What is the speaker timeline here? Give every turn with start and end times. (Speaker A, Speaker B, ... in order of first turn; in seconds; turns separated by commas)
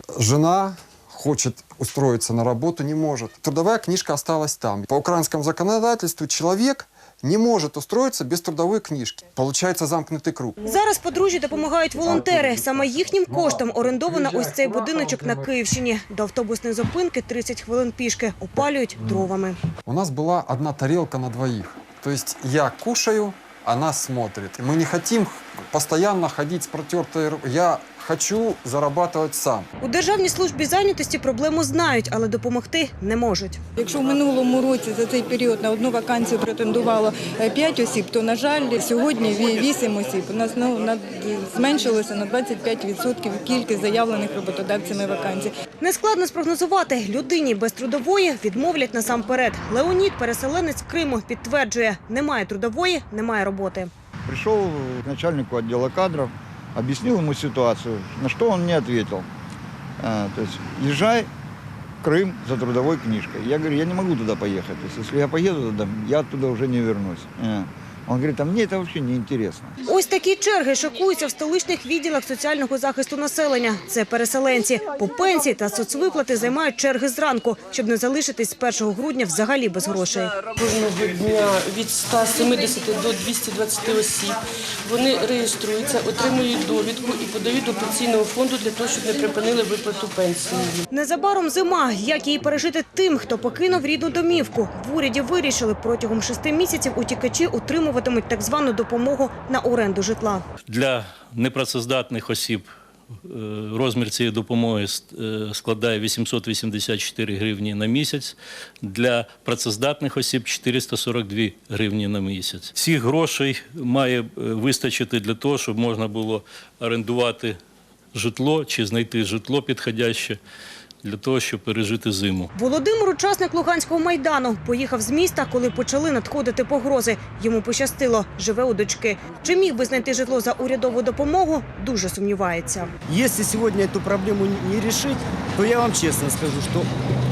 Speaker A: 0.1-10.6, Speaker B: 10.6-19.6, Speaker A: 12.1-12.6, Speaker A: 13.2-15.4, Speaker A: 19.8-29.7, Speaker B: 29.8-33.6, Speaker C: 33.8-45.5, Speaker B: 45.8-53.9, Speaker D: 54.2-59.3, Speaker D: 60.0-61.3, Speaker D: 62.0-69.7, Speaker B: 69.8-80.3, Speaker E: 80.5-90.8, Speaker B: 90.9-100.4, Speaker F: 100.7-102.6, Speaker F: 103.2-117.6, Speaker F: 118.1-120.4, Speaker F: 121.0-122.5, Speaker B: 122.5-132.9, Speaker G: 133.1-136.9